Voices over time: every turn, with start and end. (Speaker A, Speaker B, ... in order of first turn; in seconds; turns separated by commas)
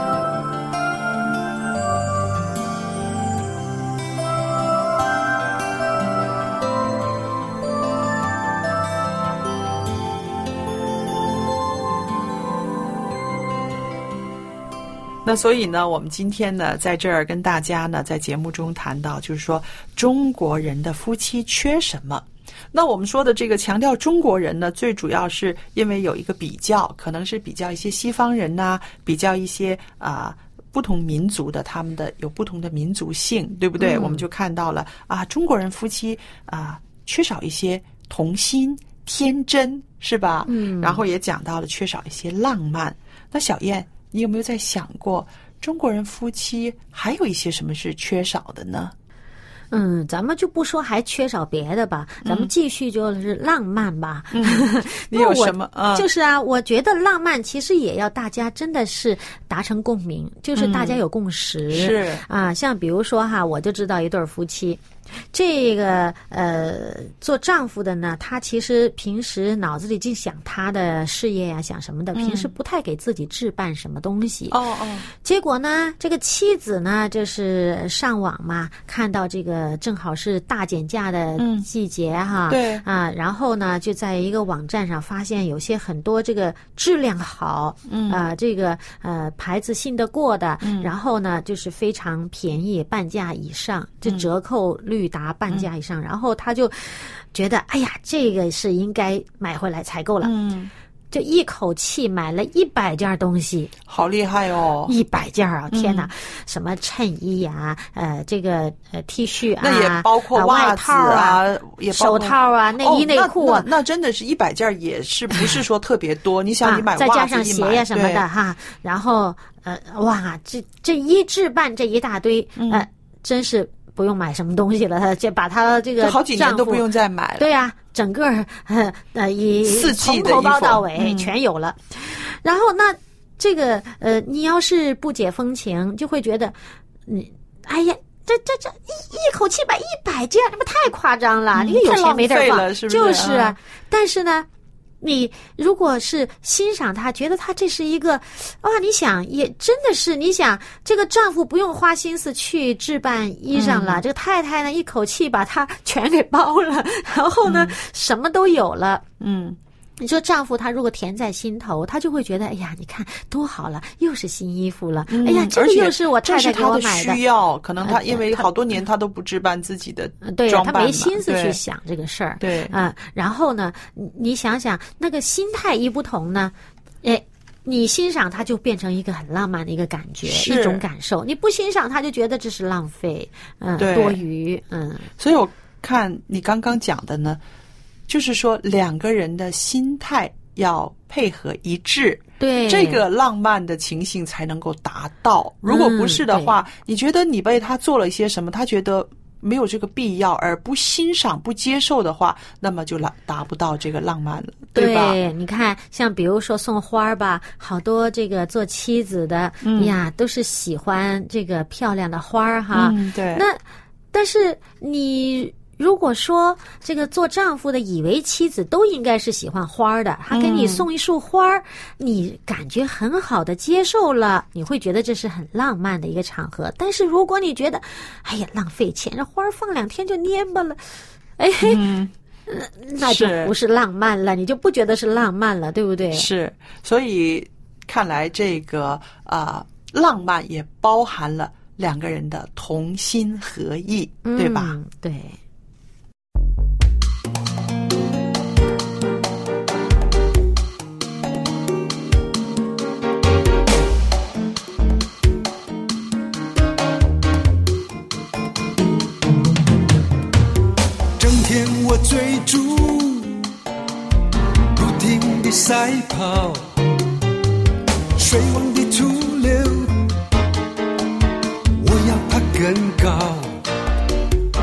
Speaker A: 15.2-48.9, Speaker B: 33.8-34.2, Speaker B: 40.5-41.0, Speaker B: 49.7-74.6, Speaker A: 52.2-52.5, Speaker A: 54.3-56.1, Speaker A: 60.6-61.0, Speaker A: 61.7-62.2, Speaker A: 72.2-72.5, Speaker A: 74.5-75.1, Speaker B: 75.1-100.3, Speaker A: 81.4-81.7, Speaker A: 82.5-82.8, Speaker A: 87.9-88.2, Speaker A: 90.6-90.9, Speaker A: 100.2-100.7, Speaker B: 101.1-103.7, Speaker A: 103.9-105.0, Speaker B: 104.9-113.7, Speaker A: 105.7-106.1, Speaker A: 109.6-118.2, Speaker B: 116.6-126.8, Speaker A: 122.6-122.9, Speaker A: 126.0-127.5, Speaker B: 127.4-136.6, Speaker A: 129.7-131.3, Speaker B: 137.1-144.5, Speaker A: 141.5-143.6, Speaker B: 145.0-159.0, Speaker A: 153.5-154.0, Speaker A: 157.4-157.8, Speaker A: 159.2-159.6, Speaker B: 160.0-167.2, Speaker A: 165.1-171.6, Speaker B: 167.8-168.5, Speaker B: 170.2-185.1, Speaker A: 172.4-172.8, Speaker A: 180.3-180.8, Speaker A: 183.8-184.2, Speaker A: 185.2-187.4, Speaker A: 188.1-205.2, Speaker B: 192.4-193.0, Speaker B: 195.7-196.6, Speaker B: 204.8-213.6, Speaker A: 209.6-209.9, Speaker A: 212.7-213.5, Speaker B: 214.1-230.8, Speaker A: 220.3-220.9, Speaker B: 231.4-231.8, Speaker A: 231.6-232.1, Speaker B: 232.5-236.3, Speaker A: 233.0-233.5, Speaker A: 236.1-244.8, Speaker B: 244.2-245.4, Speaker C: 261.2-263.5, Speaker C: 264.8-266.7, Speaker C: 268.2-270.1, Speaker C: 271.8-273.6